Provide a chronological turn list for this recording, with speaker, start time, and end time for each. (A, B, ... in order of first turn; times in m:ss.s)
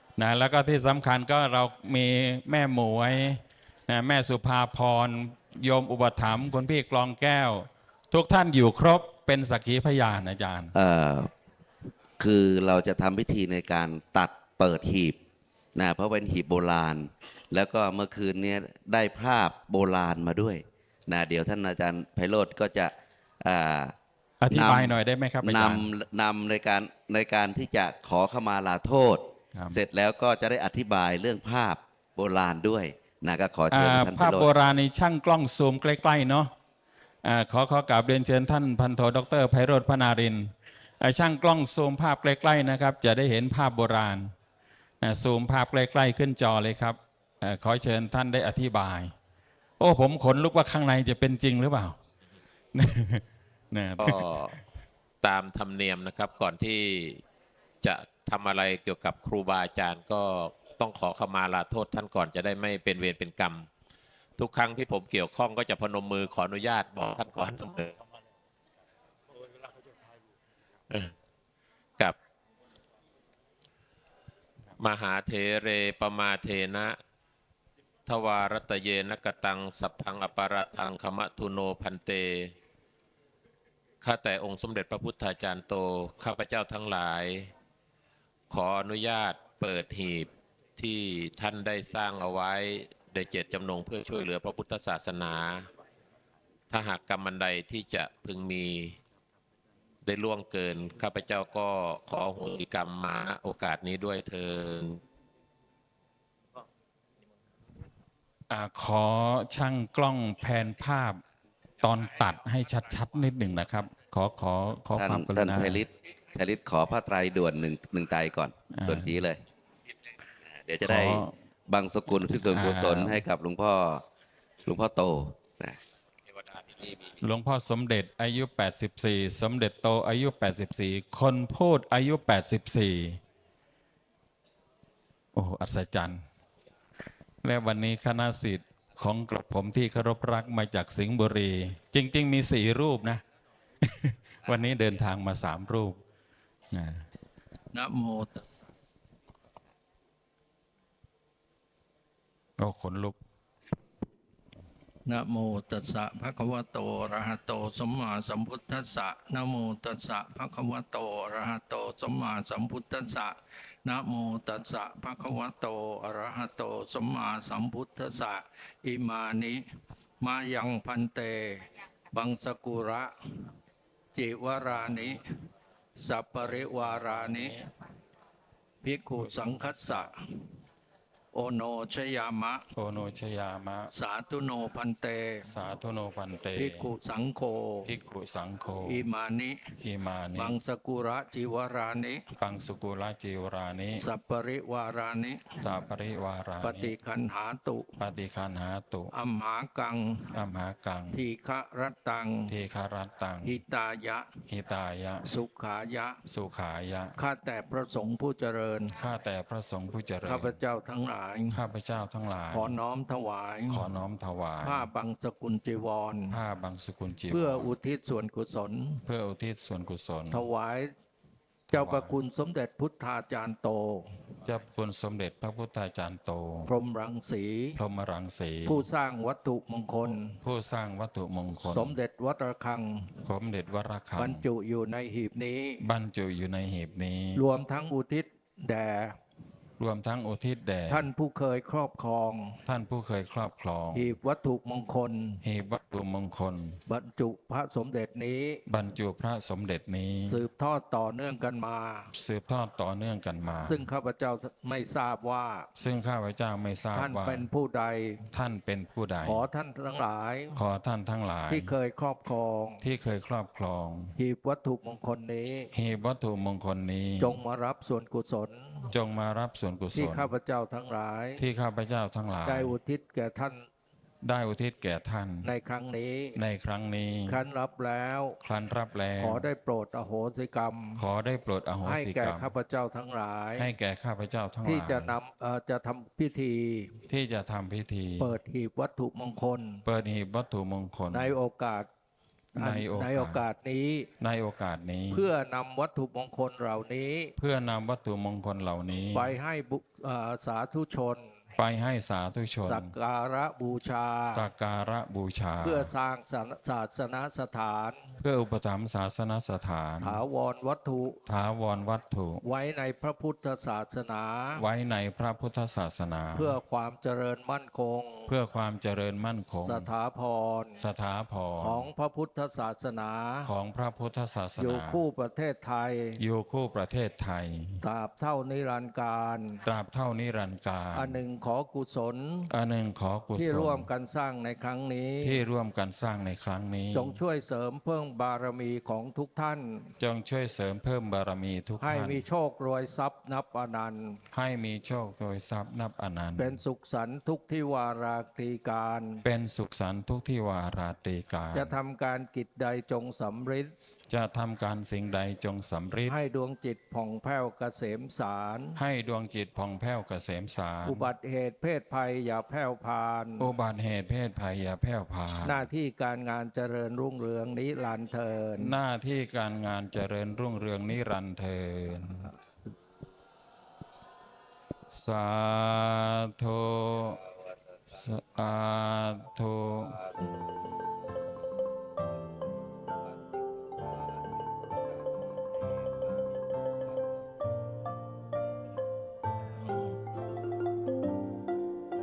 0:00.2-0:10.7 A
0:10.7-0:11.3 B
0:12.2-0:15.2 B
0:15.8-0:22.9 B
0:23.4-0:23.9 B
0:24.4-0:25.8 A
0:24.5-0:29.2 B
0:29.7-0:34.5 B
0:33.7-0:36.5 A
0:37.2-0:44.3 A
0:45.0-0:49.1 A
0:49.8-0:52.0 A
0:52.7-0:54.6 A
0:54.0-0:54.5 C
0:55.2-0:57.2 C
0:57.8-1:03.7 C
1:04.4-1:07.9 C
1:14.8-1:17.0 C
1:18.0-1:22.5 C
1:24.0-1:27.5 C
1:28.5-1:35.7 C
1:36.7-1:39.0 C
1:40.0-1:45.0 C
1:48.5-1:51.2 A
1:51.8-1:55.8 A
1:55.0-1:59.4 B
1:58.7-1:59.2 A
2:00.4-2:04.0 B
2:00.8-2:01.3 A
2:02.5-2:03.2 A
2:04.6-2:05.8 B
2:07.2-2:13.2 A
2:15.3-2:16.2 A
2:17.4-2:23.2 A
2:23.8-2:26.0 A
2:26.7-2:27.0 A
2:27.7-2:28.4 D
2:32.6-2:33.2 A
2:35.0-2:49.6 D
2:50.2-2:53.4 D
2:54.1-2:55.2 D
2:54.6-2:55.1 A
2:56.0-2:57.5 D
2:56.4-2:57.7 A
2:58.8-3:00.1 D
2:59.1-3:00.1 A
3:01.3-3:02.6 D
3:02.8-3:03.9 A
3:03.9-3:05.4 D
3:05.4-3:06.9 A
3:06.6-3:07.9 D
3:07.8-3:09.1 A
3:08.8-3:09.6 D
3:09.8-3:10.6 A
3:10.4-3:12.2 D
3:12.4-3:14.0 A
3:14.0-3:15.5 D
3:15.6-3:16.9 A
3:16.6-3:17.9 D
3:18.0-3:19.1 A
3:19.1-3:20.3 D
3:20.3-3:21.2 A
3:21.1-3:22.5 D
3:22.5-3:23.6 A
3:23.4-3:24.3 D
3:24.5-3:25.2 A
3:25.2-3:26.2 D
3:26.2-3:27.2 A
3:27.2-3:28.9 D
3:29.0-3:30.6 A
3:30.2-3:31.6 D
3:31.5-3:32.8 A
3:32.5-3:33.8 D
3:33.7-3:34.9 A
3:34.6-3:36.3 D
3:36.3-3:37.7 A
3:37.3-3:39.0 D
3:39.0-3:40.4 A
3:40.3-3:40.9 D
3:41.7-3:44.1 D
3:41.7-3:42.2 A
3:44.4-3:46.7 A
3:46.7-3:47.8 D
3:47.8-3:48.8 A
3:48.6-3:50.4 D
3:50.4-3:52.0 A
3:51.7-3:53.1 D
3:53.2-3:54.4 A
3:54.2-3:55.8 D
3:55.8-3:57.4 A
3:57.3-3:59.2 D
3:59.8-4:01.1 A
4:00.9-4:02.6 D
4:02.6-4:04.1 A
4:03.9-4:05.4 D
4:05.4-4:06.8 A
4:06.9-4:08.6 D
4:08.7-4:10.4 A
4:10.2-4:12.1 D
4:12.1-4:13.8 A
4:13.6-4:15.7 D
4:15.8-4:17.5 A
4:16.9-4:18.2 D
4:18.3-4:19.5 A
4:19.2-4:20.6 D
4:20.5-4:21.7 A
4:21.5-4:22.8 D
4:22.8-4:24.1 A
4:24.2-4:25.7 D
4:25.7-4:27.4 A
4:27.2-4:28.9 D
4:28.9-4:30.3 A
4:30.0-4:31.4 D
4:31.4-4:32.8 A
4:32.4-4:33.6 D
4:34.2-4:35.5 A
4:35.4-4:36.4 D
4:36.4-4:37.4 A
4:37.3-4:38.4 D
4:38.4-4:39.5 A
4:39.2-4:41.0 D
4:41.0-4:42.5 A
4:41.8-4:43.7 D
4:43.6-4:45.2 A
4:44.6-4:46.9 D
4:47.1-4:48.4 A
4:48.2-4:49.8 D
4:49.8-4:51.3 A
4:51.1-4:51.9 D
4:52.5-4:54.1 D
4:52.6-4:53.4 A
4:54.2-4:55.3 A
4:55.1-4:57.3 D
4:57.4-4:59.3 A
4:59.1-5:01.3 D
5:01.6-5:02.9 A
5:02.6-5:04.4 D
5:04.2-5:05.9 A
5:05.6-5:08.1 D
5:08.2-5:10.2 A
5:10.0-5:11.2 D
5:11.3-5:12.4 A
5:12.4-5:14.6 D
5:14.6-5:16.6 A
5:16.3-5:18.3 D
5:18.3-5:19.9 A
5:19.6-5:20.8 D
5:20.8-5:21.9 A
5:21.6-5:23.5 D
5:23.4-5:25.0 A
5:24.6-5:26.2 D
5:26.2-5:27.8 A
5:27.8-5:29.6 D
5:29.6-5:31.2 A
5:30.9-5:32.5 D
5:32.5-5:33.9 A
5:33.4-5:35.4 D
5:35.2-5:37.2 A
5:36.9-5:39.9 D
5:40.0-5:42.2 A
5:41.8-5:44.2 D
5:44.3-5:46.6 A
5:46.4-5:49.2 D
5:49.2-5:51.7 A
5:51.5-5:53.7 D
5:54.1-5:56.2 A
5:56.1-5:58.8 D
5:58.8-6:01.1 A
6:00.8-6:03.5 D
6:03.4-6:05.6 A
6:05.4-6:08.7 D
6:08.6-6:12.3 A
6:14.9-6:17.2 A
6:17.9-6:20.0 A
6:29.6-6:30.0 D